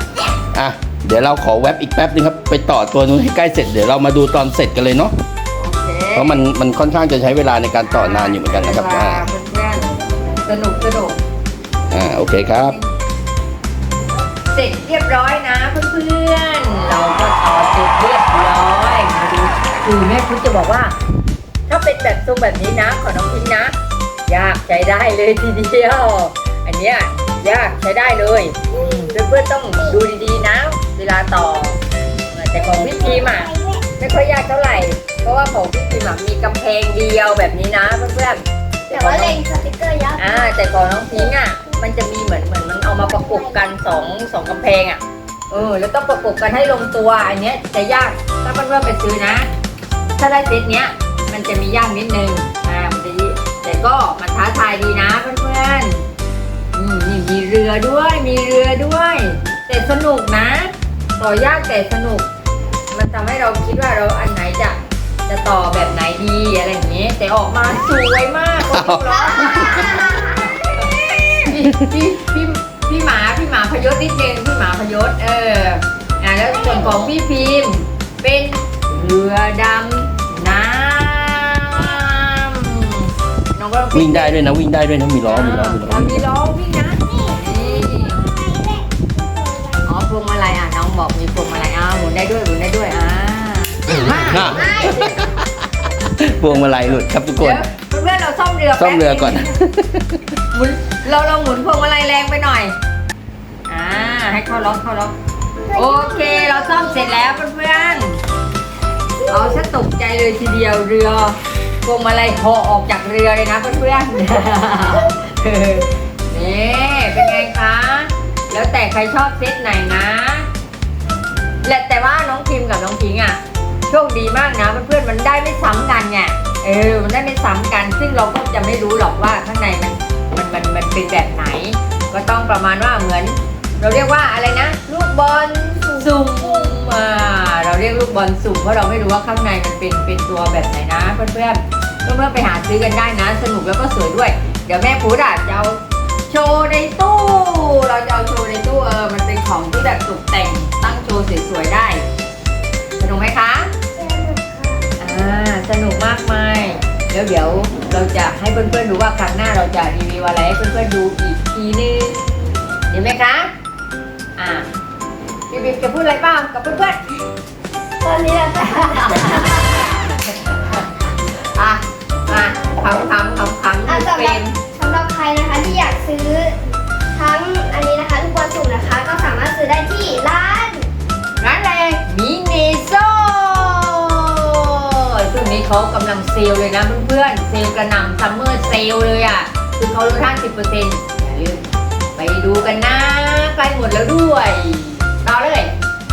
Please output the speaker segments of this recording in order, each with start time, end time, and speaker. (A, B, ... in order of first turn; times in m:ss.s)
0:00.5-0:05.1 A
0:05.6-0:06.4 B
0:06.1-0:09.2 A
0:07.8-0:09.8 B
0:10.4-0:11.2 B
0:11.9-0:12.8 A
0:12.4-0:12.9 B
0:14.5-0:20.9 B
0:21.7-0:23.7 B
0:24.3-0:31.8 B
0:28.7-0:29.2 C
0:32.3-0:39.4 B
0:32.6-0:33.8 C
0:38.9-0:40.5 C
0:40.2-0:49.5 B
0:42.9-0:43.7 C
0:50.2-0:56.0 B
0:56.7-1:02.2 B
1:02.9-1:10.0 B
1:08.7-1:10.0 A
1:09.1-1:11.3 C
1:11.4-1:24.4 B
1:16.5-1:17.1 C
1:23.9-1:26.2 A
1:25.3-1:28.2 B
1:27.0-1:29.8 C
1:29.8-1:34.8 B
1:34.2-1:37.6 A
1:34.6-1:35.1 C
1:37.4-1:39.5 B
1:38.8-1:40.2 A
1:40.5-1:42.7 B
1:43.7-1:45.1 B
1:45.7-1:47.3 C
1:45.7-1:48.2 B
1:49.2-1:49.6 C
1:49.3-2:00.5 B
2:01.6-2:15.2 B
2:15.6-2:16.7 C
2:15.9-2:32.0 B
2:33.0-2:33.7 B
2:34.0-2:34.8 C
2:35.0-2:43.5 B
2:44.4-2:44.7 B
2:45.5-2:47.0 B
2:48.0-2:49.9 C
2:48.6-2:51.0 B
2:51.5-2:54.6 B
2:53.9-2:56.6 C
2:57.1-3:00.9 C
3:01.4-3:11.6 B
3:12.2-3:15.7 B